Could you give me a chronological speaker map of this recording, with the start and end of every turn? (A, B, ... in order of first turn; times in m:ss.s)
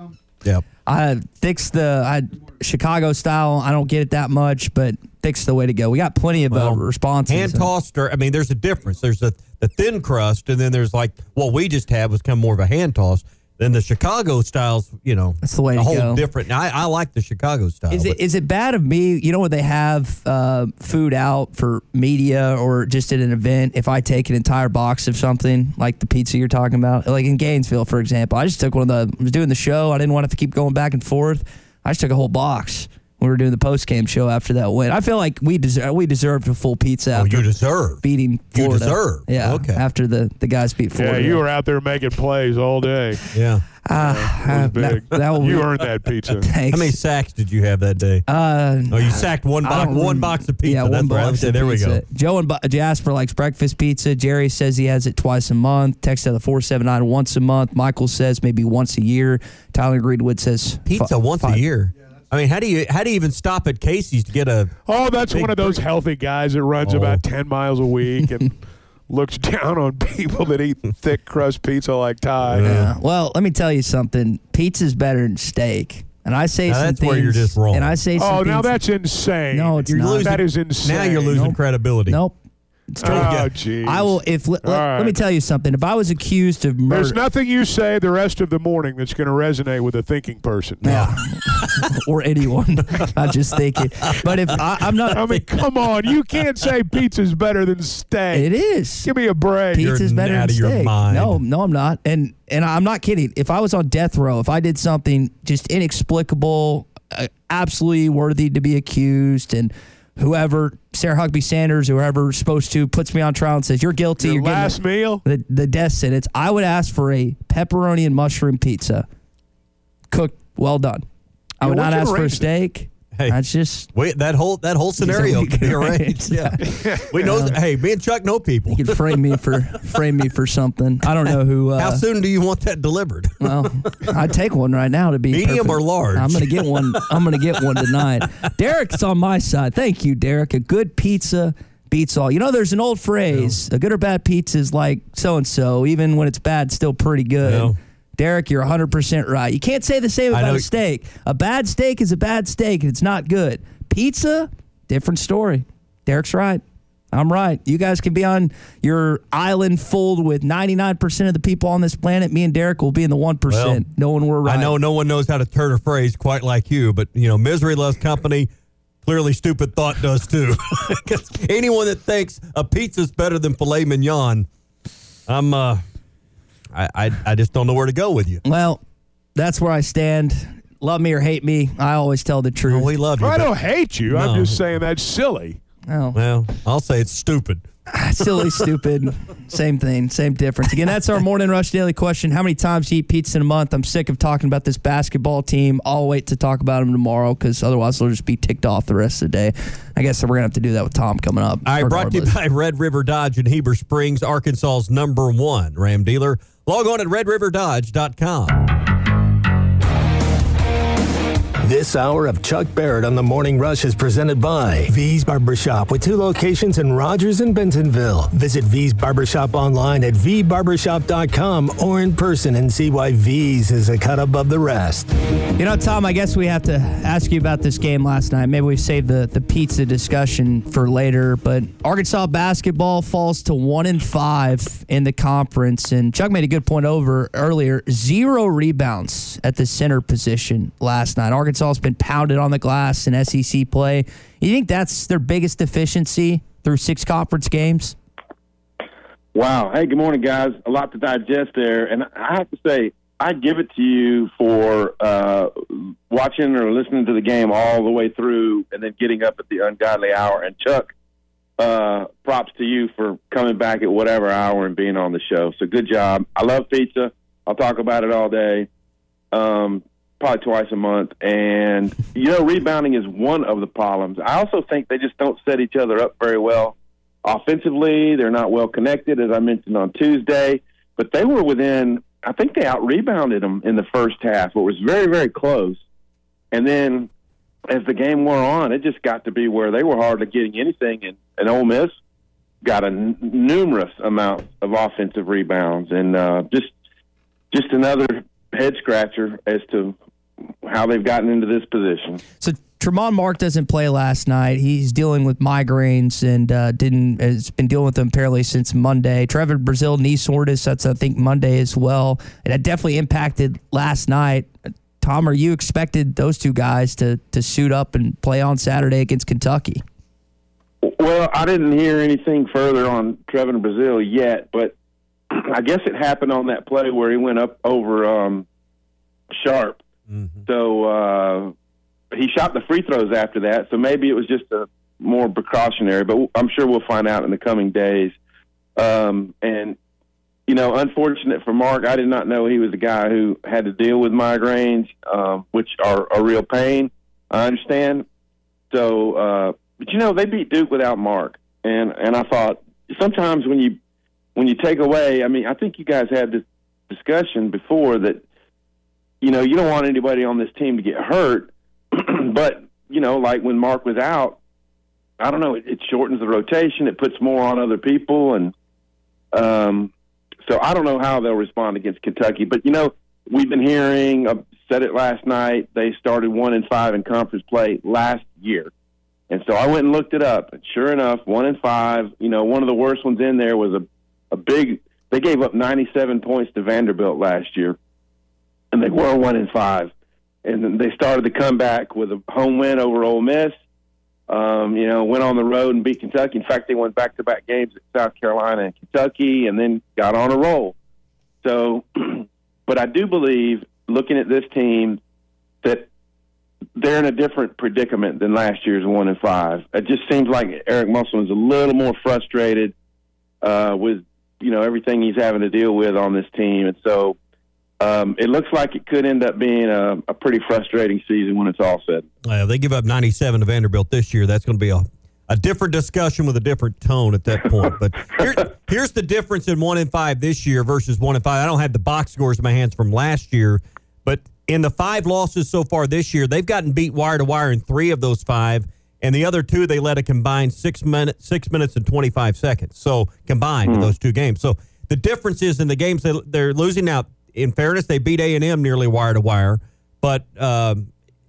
0:00.9-0:07.7 A
0:06.5-0:18.2 B
0:15.4-0:16.2 A
0:17.9-0:41.4 A
0:37.1-0:38.0 B
0:38.5-0:39.8 B
0:41.0-0:43.2 C
0:43.3-0:43.6 B
0:43.9-0:45.7 A
0:44.0-0:46.5 C
0:46.4-0:47.0 A
0:46.7-0:48.2 B
0:48.3-1:01.6 A
0:48.9-0:52.0 B
1:00.9-1:04.8 B
1:04.9-1:08.6 C
1:05.3-1:05.8 B
1:06.8-1:07.2 B
1:09.1-1:12.7 C
1:12.5-1:12.9 B
1:12.6-1:18.7 A
1:16.7-1:18.0 B
1:18.2-1:21.4 C
1:19.5-1:20.4 A
1:19.9-1:22.2 B
1:21.3-1:22.4 A
1:22.9-1:27.2 A
1:23.0-1:25.2 C
1:23.0-1:23.5 B
1:26.9-1:31.1 C
1:30.8-1:31.9 B
1:30.8-1:35.2 A
1:35.1-1:38.5 C
1:38.3-1:39.1 A
1:39.0-1:39.9 C
1:39.7-1:59.1 A
1:39.8-1:41.4 B
1:54.2-1:55.2 C
2:00.1-2:01.0 A
2:01.6-2:03.9 A
2:01.6-2:02.5 C
2:03.9-2:09.2 B
2:05.0-2:06.6 A
2:06.6-2:07.1 C
2:07.2-2:07.6 A
2:08.7-2:12.0 A
2:11.8-2:14.1 B
2:13.4-2:44.8 A
2:15.3-2:17.4 B
2:27.4-2:27.8 B
2:30.3-2:30.7 B
2:43.5-2:43.8 B
2:44.4-2:48.5 B
2:49.0-2:54.5 B
2:55.3-2:55.8 B
2:56.7-2:58.4 B
2:58.5-2:58.8 A
2:59.4-3:02.9 A
3:02.6-3:03.5 B
3:03.2-3:05.6 C
3:04.1-3:04.6 B
3:05.9-3:06.2 A
3:06.1-3:07.6 B
3:07.9-3:22.4 A
3:08.2-3:08.6 B
3:21.7-3:28.7 B
3:31.6-3:45.1 D
3:45.6-4:08.0 A
4:09.3-4:20.9 E
4:21.6-4:28.7 E
4:29.3-4:45.8 E
4:46.5-4:47.1 E
4:47.7-4:52.0 E
4:52.6-4:56.7 E
4:57.5-5:00.0 E
5:00.6-5:02.2 E
5:02.4-5:14.5 A
5:15.0-5:19.8 A
5:20.8-5:24.7 E
5:25.3-5:28.5 E
5:29.3-5:29.8 E
5:30.1-5:30.4 B
5:30.5-5:31.5 E
5:32.1-5:38.2 E
5:38.8-5:39.8 E
5:40.5-5:48.0 E
5:48.7-5:53.8 E
5:54.4-5:58.2 E
5:59.2-6:04.4 E
6:05.2-6:08.5 E
6:09.3-6:09.9 E
6:10.4-6:18.7 E
6:19.3-6:27.8 E
6:28.7-6:29.9 E
6:30.4-6:33.6 E
6:34.3-6:40.8 E
6:41.4-6:45.0 E
6:45.6-6:45.9 E
6:46.8-6:52.7 E
6:53.4-6:57.2 E
6:57.8-7:02.1 E
7:02.2-7:30.9 B
7:23.6-7:24.0 E